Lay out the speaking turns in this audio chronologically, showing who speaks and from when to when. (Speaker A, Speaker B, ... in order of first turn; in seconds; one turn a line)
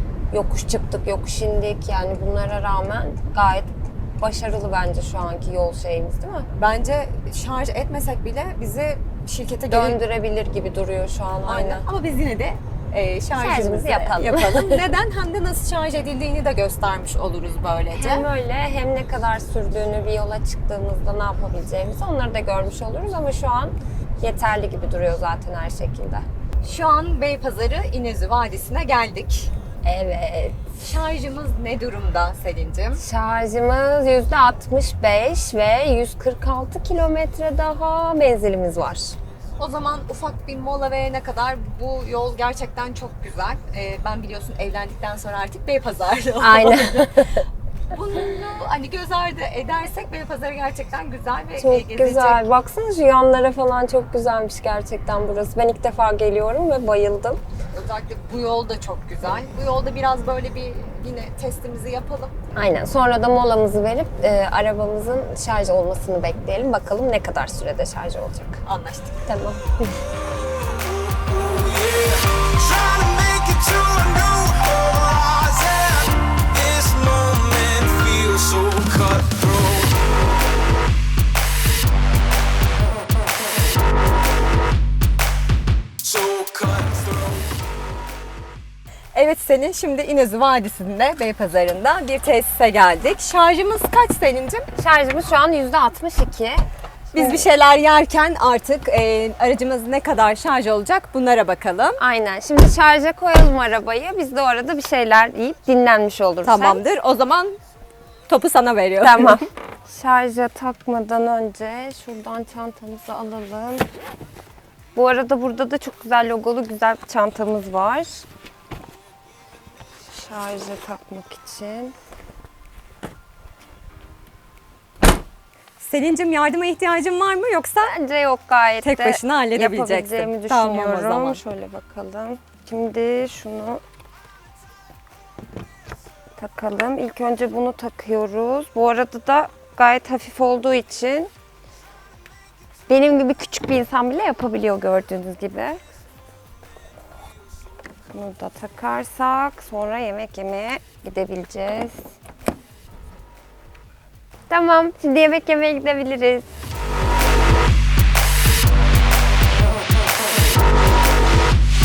Speaker A: 0.3-6.5
Speaker B: 6.5-10.0
Speaker A: 9.7-11.8
Speaker B: 11.4-18.2
Speaker A: 13.3-14.9
Speaker A: 17.9-26.2
Speaker B: 26.6-29.5
Speaker A: 29.8-30.7
Speaker B: 30.8-33.0
Speaker A: 33.0-39.1
Speaker B: 39.6-47.1
Speaker A: 46.4-47.4
Speaker B: 47.9-52.4
Speaker A: 51.6-57.4
Speaker B: 57.7-62.3
Speaker A: 62.5-68.6
Speaker B: 68.6-69.2
Speaker A: 69.3-69.9
Speaker C: 70.4-80.0
Speaker C: 86.0-87.5
Speaker B: 89.1-94.6
Speaker A: 94.8-96.6
Speaker A: 97.1-97.5
Speaker B: 97.1-102.0
Speaker A: 102.0-106.8
Speaker B: 106.4-107.6
Speaker B: 108.3-109.4
Speaker A: 109.0-113.9
Speaker A: 114.9-118.2
Speaker A: 120.1-121.9
Speaker B: 125.8-127.9
Speaker A: 127.8-133.8
Speaker B: 128.8-131.4
Speaker A: 136.4-141.3
Speaker A: 142.9-145.8
Speaker A: 148.1-152.1
Speaker A: 154.5-156.4